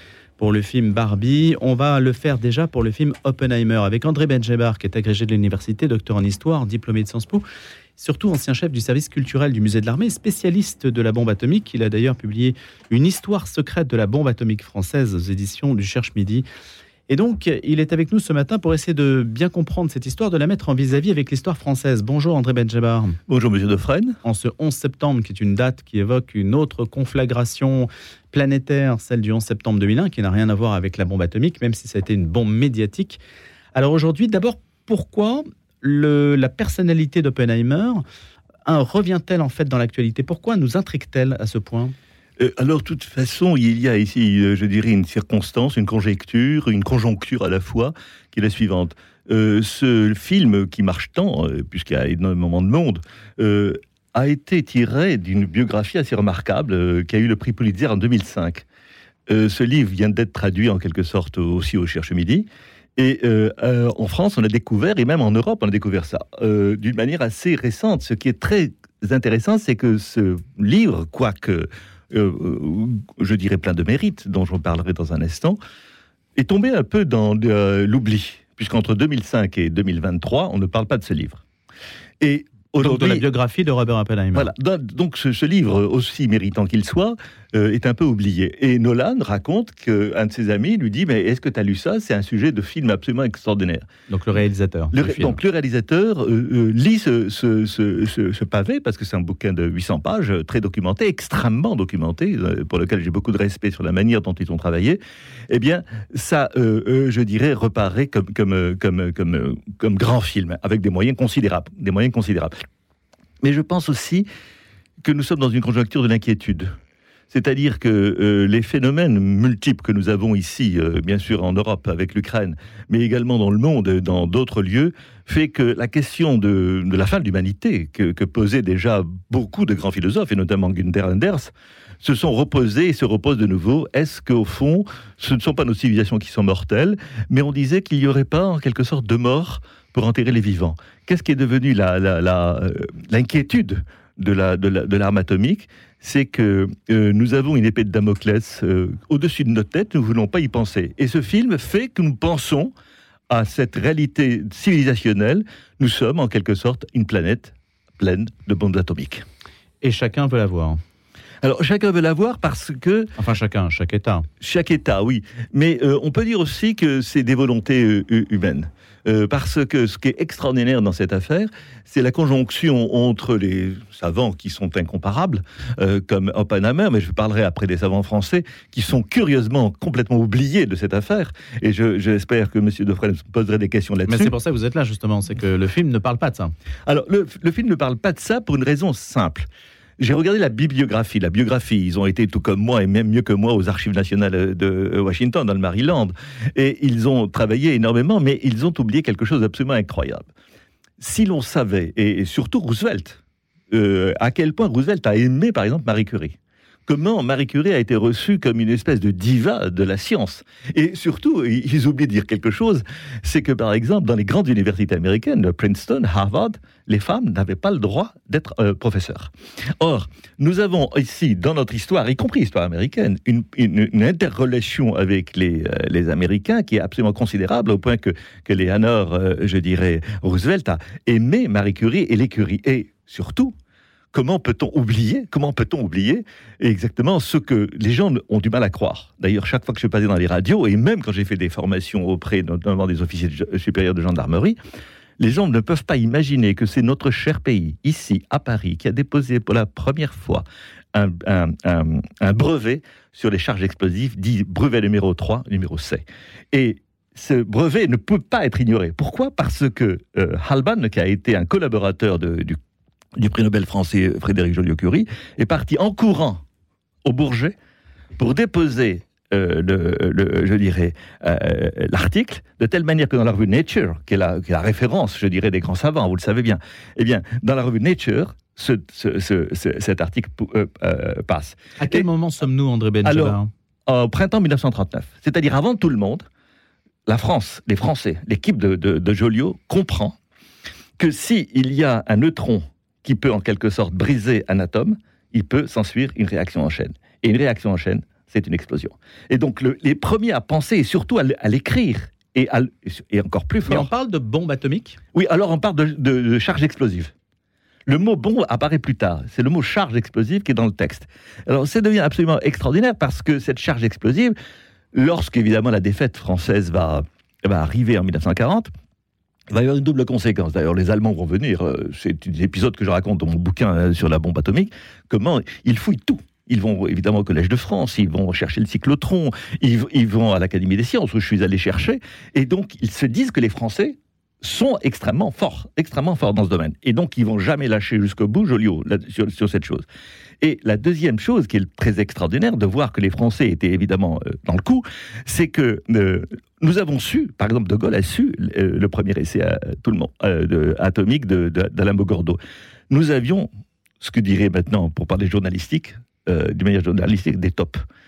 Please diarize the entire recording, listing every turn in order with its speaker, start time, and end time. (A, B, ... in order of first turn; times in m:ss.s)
0:00.4-0:07.4 A
0:08.0-0:16.5 A
0:17.1-0:23.2 A
0:23.3-0:24.2 B
0:24.2-0:33.2 A
0:33.8-0:38.0 A
0:38.7-0:42.0 A
0:42.4-0:58.6 B
0:59.3-1:15.6 B
1:16.4-1:21.4 B
1:22.2-1:23.3 B
1:22.8-1:24.5 A
1:24.3-1:33.9 B
1:34.1-1:35.4 A
1:34.9-1:52.5 B
1:53.4-1:54.3 B
1:55.0-1:56.7 B
1:57.3-2:32.7 B
2:33.3-2:39.2 B
2:39.8-2:40.8 A
2:41.4-2:43.1 B
2:43.2-2:44.3 A
2:44.4-3:04.3 B
3:04.1-3:06.5 A
3:06.9-3:09.5 B
3:10.0-3:20.3 B
3:21.0-3:23.2 B
3:23.7-3:53.6 B
3:54.1-4:04.6 B
4:05.2-4:22.6 B
4:23.2-4:26.4 B
4:27.0-4:27.6 B
4:28.2-4:42.1 B
4:41.8-4:43.5 A
4:43.0-4:46.3 B
4:47.1-4:50.2 B
4:51.0-5:03.9 B
5:03.7-5:05.0 A
5:05.1-5:07.1 B
5:07.9-5:14.4 B
5:14.9-5:18.7 B
5:19.5-5:39.8 B
5:40.4-5:52.4 B
5:52.9-5:53.5 B
5:54.0-5:57.8 B